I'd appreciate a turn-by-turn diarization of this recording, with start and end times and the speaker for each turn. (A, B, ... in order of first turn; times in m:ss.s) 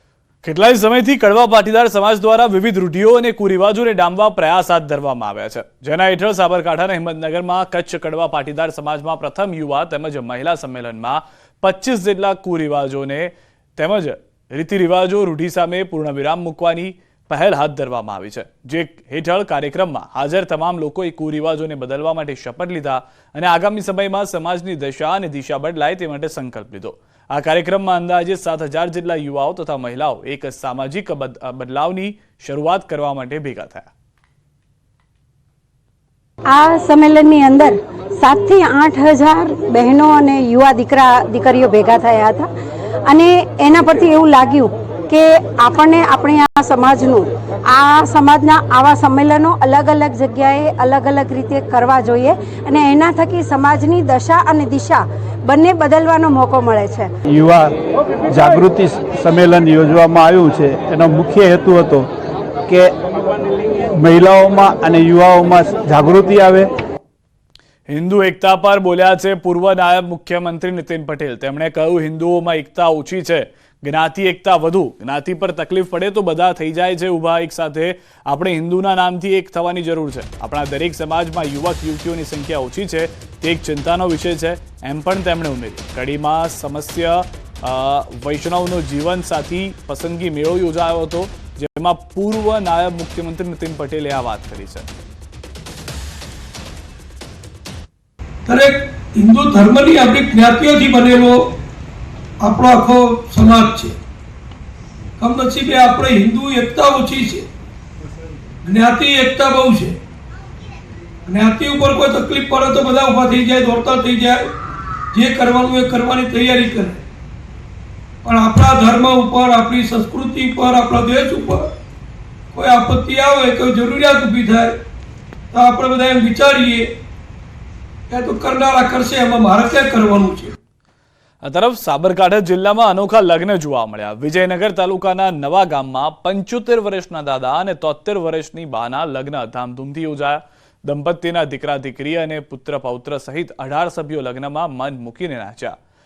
0:00.4-0:33.9 A
0:36.5-0:42.5 B
0:43.0-0:57.1 B
0:57.3-0:57.7 C
0:58.3-1:02.1 C
1:02.7-1:02.9 C
1:04.0-1:06.7 C
1:07.9-1:34.9 A
1:38.5-1:41.4 D
1:42.4-1:43.9 D
1:45.2-1:47.4 D
1:48.6-1:50.0 D
1:51.3-1:54.4 D
1:55.1-1:57.0 D
1:58.2-2:01.6 D
2:02.5-2:04.7 D
2:05.5-2:06.9 D
2:08.1-2:10.5 D
2:11.4-2:25.8 A